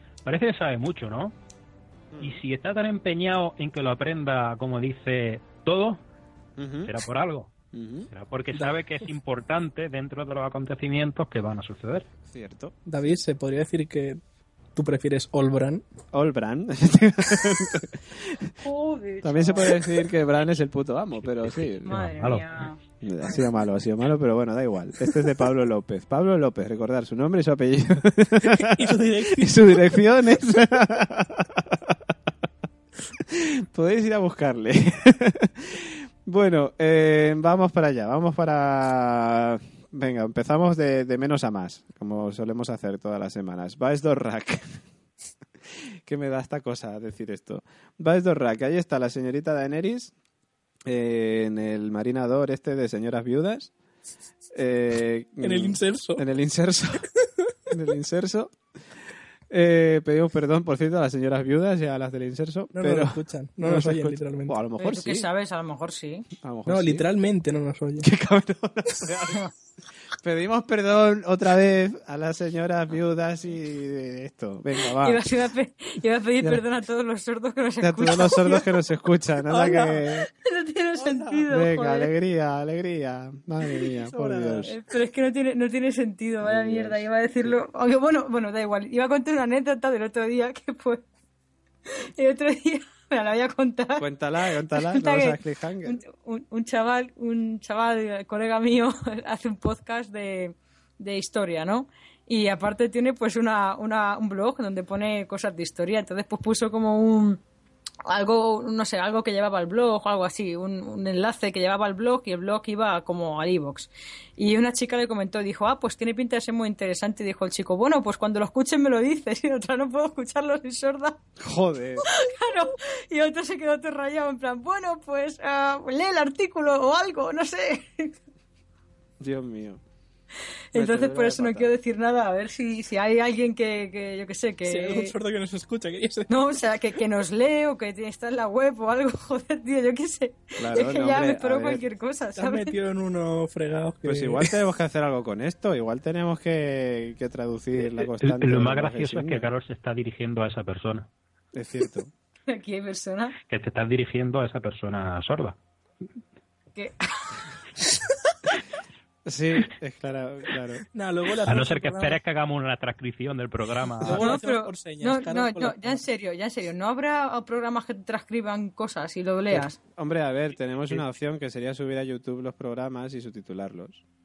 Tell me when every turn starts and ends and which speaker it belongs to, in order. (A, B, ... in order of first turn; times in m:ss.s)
0:00.2-0:01.3 A
0:02.1-0:02.4 B
0:02.2-0:06.0 A
0:06.6-0:06.9 B
0:06.8-0:07.5 A
0:07.7-0:08.1 B
0:08.1-0:12.1 A
0:12.3-0:12.8 B
0:12.9-0:14.2 C
0:14.8-0:15.8 C
0:16.1-0:18.5 B
0:18.6-0:19.8 D
0:19.2-0:22.0 B
0:21.9-0:22.4 A
0:21.9-0:23.4 D
0:23.0-0:32.0 B
0:28.4-0:30.0 C
0:33.2-0:44.8 B
0:46.1-0:50.1 B
0:50.9-0:53.7 B
0:54.5-0:57.1 B
0:55.4-0:56.2 C
0:57.7-0:58.5 B
0:59.5-1:05.3 B
1:02.7-1:04.6 C
1:04.8-1:06.3 D
1:06.4-1:07.1 B
1:06.7-1:08.1 C
1:08.0-1:09.4 B
1:10.2-1:15.2 B
1:15.0-1:18.6 D
1:17.8-1:20.3 B
1:19.5-1:20.1 C
1:20.4-1:22.1 D
1:21.0-1:21.4 C
1:21.5-1:24.7 B
1:24.1-1:24.8 C
1:24.7-1:31.0 D
1:26.4-1:27.5 B
1:31.9-1:34.1 D
1:34.0-1:36.0 B
1:34.7-1:47.4 D
1:48.1-2:01.2 D
2:01.4-2:02.1 B
2:02.1-2:08.2 D
2:09.2-2:09.8 B
2:10.7-2:15.2 D
2:10.7-2:11.7 B
2:14.7-2:16.3 C
2:16.3-2:22.8 D
2:20.6-2:21.8 B
2:22.4-2:24.5 C
2:24.0-2:29.5 B
2:28.2-2:31.1 A
2:31.5-2:32.1 B
2:32.5-2:33.4 D
2:33.5-2:35.6 A
2:36.8-2:37.2 D
2:39.3-2:40.8 B
2:41.0-2:42.2 C
2:41.4-2:44.4 A
2:44.0-2:46.0 C
2:44.1-2:49.8 D
2:49.5-2:54.0 B